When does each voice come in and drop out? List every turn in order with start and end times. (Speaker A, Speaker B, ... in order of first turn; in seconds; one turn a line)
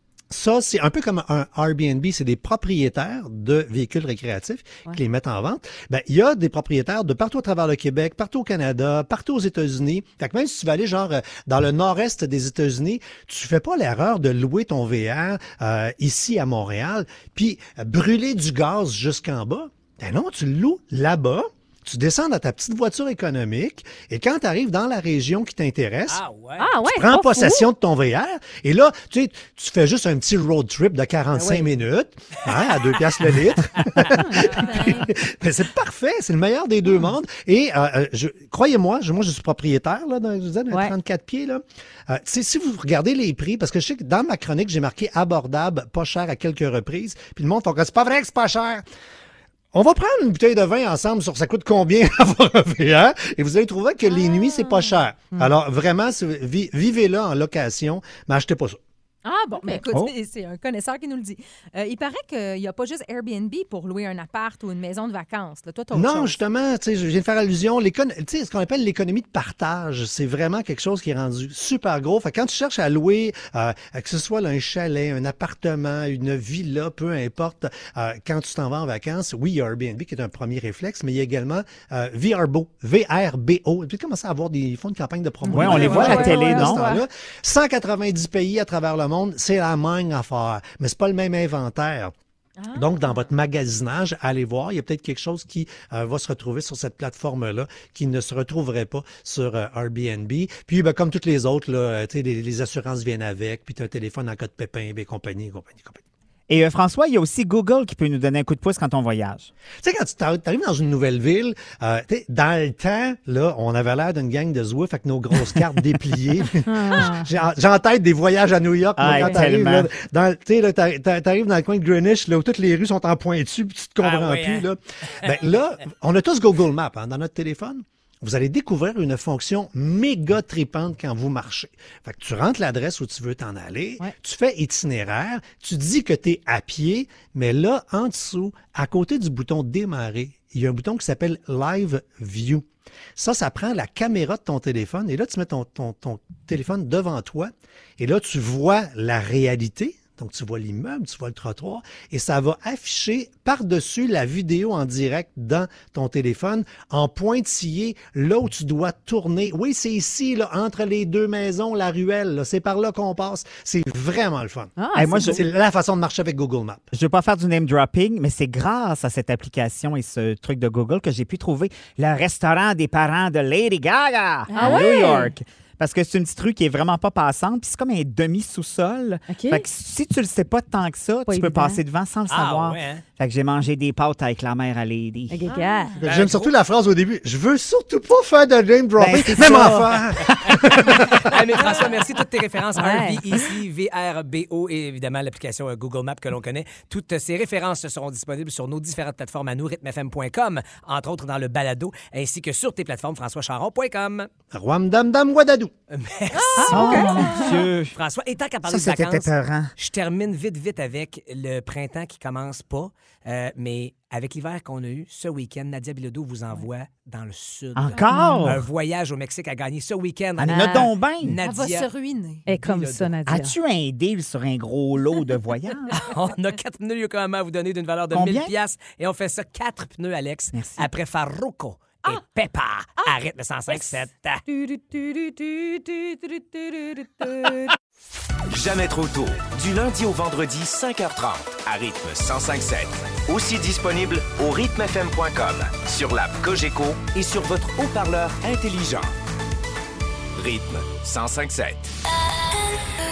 Speaker A: 0.3-26.2
Speaker B: 26.1-26.7
Speaker C: 26.6-27.7
Speaker A: 26.8-48.8
Speaker C: 31.4-31.7
Speaker C: 34.0-35.0
Speaker D: 34.5-35.1
Speaker A: 49.7-58.8
Speaker D: 54.0-55.0
Speaker D: 59.2-66.4
Speaker A: 65.9-92.1
Speaker C: 85.5-87.0
Speaker E: 85.5-86.9
Speaker D: 85.7-86.3
Speaker D: 92.6-93.3
Speaker A: 92.8-106.0
Speaker E: 106.5-109.5
Speaker A: 109.8-166.9
Speaker C: 116.7-117.3
Speaker E: 119.0-119.9
Speaker C: 119.1-119.4
Speaker B: 124.0-124.7
Speaker C: 164.8-165.4
Speaker E: 164.9-165.4
Speaker E: 166.9-185.4
Speaker C: 174.5-175.3
Speaker D: 174.5-174.8
Speaker C: 179.3-179.7
Speaker C: 181.3-181.8
Speaker B: 182.3-183.0
Speaker C: 185.3-186.0
Speaker D: 185.5-185.9
Speaker A: 186.0-191.4
Speaker B: 186.0-186.5
Speaker E: 189.0-190.2
Speaker B: 190.8-204.3
Speaker C: 192.8-193.2
Speaker A: 204.5-205.7
Speaker B: 205.9-221.9
Speaker D: 206.3-207.5
Speaker C: 206.6-207.5
Speaker E: 206.7-207.9
Speaker E: 208.7-209.7
Speaker E: 217.8-218.7
Speaker C: 218.1-218.4
Speaker E: 220.4-221.4
Speaker C: 220.5-220.9
Speaker D: 221.4-222.5
Speaker C: 222.5-223.6
Speaker B: 222.5-223.1
Speaker E: 223.3-225.9
Speaker B: 225.9-234.4
Speaker E: 228.1-228.5
Speaker E: 230.5-230.9
Speaker C: 234.5-236.2
Speaker F: 238.5-249.1
Speaker F: 250.3-251.9